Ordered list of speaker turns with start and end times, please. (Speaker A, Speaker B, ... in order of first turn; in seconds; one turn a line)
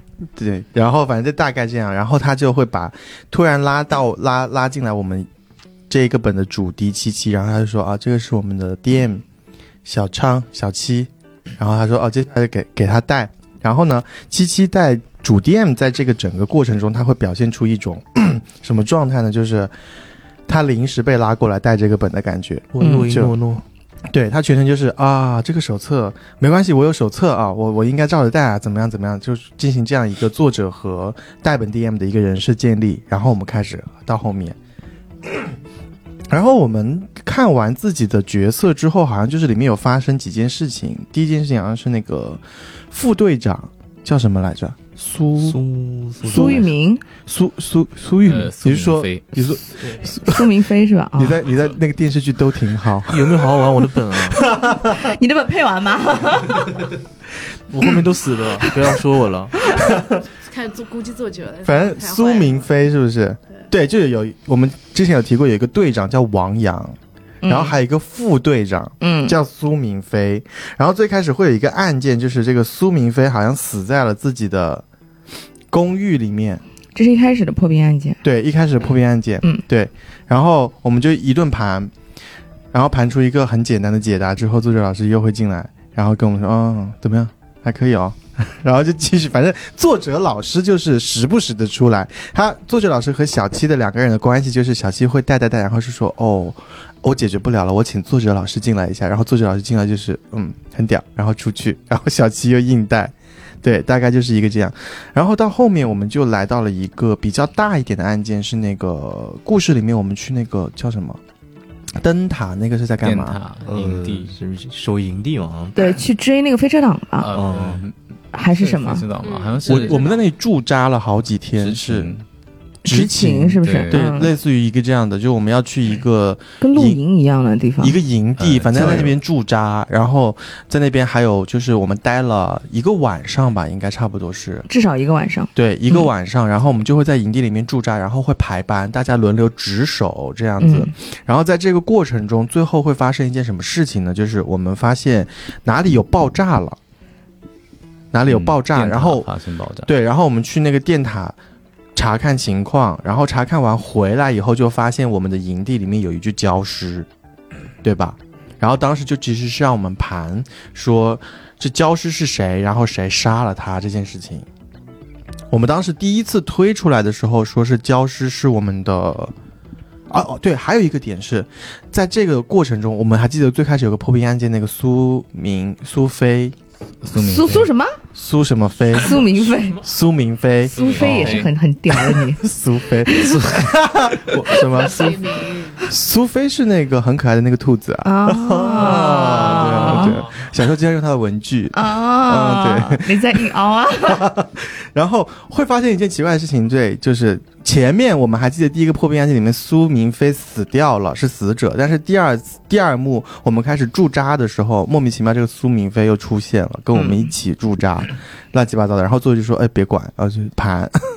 Speaker A: 0.2-5.3
Speaker A: 5.9-9.2
Speaker A: 9.8-19.7
Speaker A: 20.5-23.3
Speaker B: 22.7-23.6
Speaker A: 24.1-34.6
Speaker A: 35.2-35.5
Speaker A: 36.3-45.6
Speaker C: 45.4-46.7
Speaker D: 46.2-47.0
Speaker A: 46.3-46.6
Speaker A: 47.2-50.5
Speaker E: 48.2-49.5
Speaker D: 50.2-51.4
Speaker A: 51.2-53.5
Speaker B: 53.1-54.5
Speaker A: 54.3-55.1
Speaker D: 54.6-56.8
Speaker B: 57.7-59.6
Speaker F: 59.6-62.7
Speaker A: 59.9-60.2
Speaker A: 61.6-74.8
Speaker D: 67.4-67.8
Speaker D: 69.0-69.4
Speaker A: 75.7-76.6
Speaker D: 77.0-78.2
Speaker A: 78.2-81.9
Speaker A: 82.7-111.2
Speaker A: 112.0-113.4
Speaker E: 113.0-114.4
Speaker C: 113.7-115.8
Speaker D: 115.8-117.3
Speaker E: 117.2-118.0
Speaker C: 117.3-117.8
Speaker D: 118.3-119.1
Speaker E: 118.5-120.2
Speaker F: 119.2-120.2
Speaker A: 119.7-122.1
Speaker E: 121.6-122.2
Speaker A: 122.8-127.0
Speaker D: 122.9-124.3
Speaker E: 123.6-124.1
Speaker D: 126.6-128.0
Speaker A: 127.8-134.7
Speaker E: 128.4-129.1
Speaker D: 134.7-136.1
Speaker A: 135.6-146.8
Speaker D: 140.6-140.9
Speaker A: 148.1-149.3
Speaker E: 148.3-149.9
Speaker A: 149.9-151.4
Speaker A: 151.9-157.1
Speaker A: 157.8-164.5
Speaker A: 165.5-169.3
Speaker A: 170.1-176.6
Speaker E: 177.0-177.7
Speaker D: 177.2-178.0
Speaker A: 178.1-211.0
Speaker D: 178.9-179.8
Speaker E: 180.7-181.5
Speaker D: 180.7-182.4
Speaker D: 183.1-183.4
Speaker F: 184.8-185.9
Speaker D: 188.0-190.2
Speaker E: 189.1-190.4
Speaker D: 191.7-194.3
Speaker D: 206.9-207.2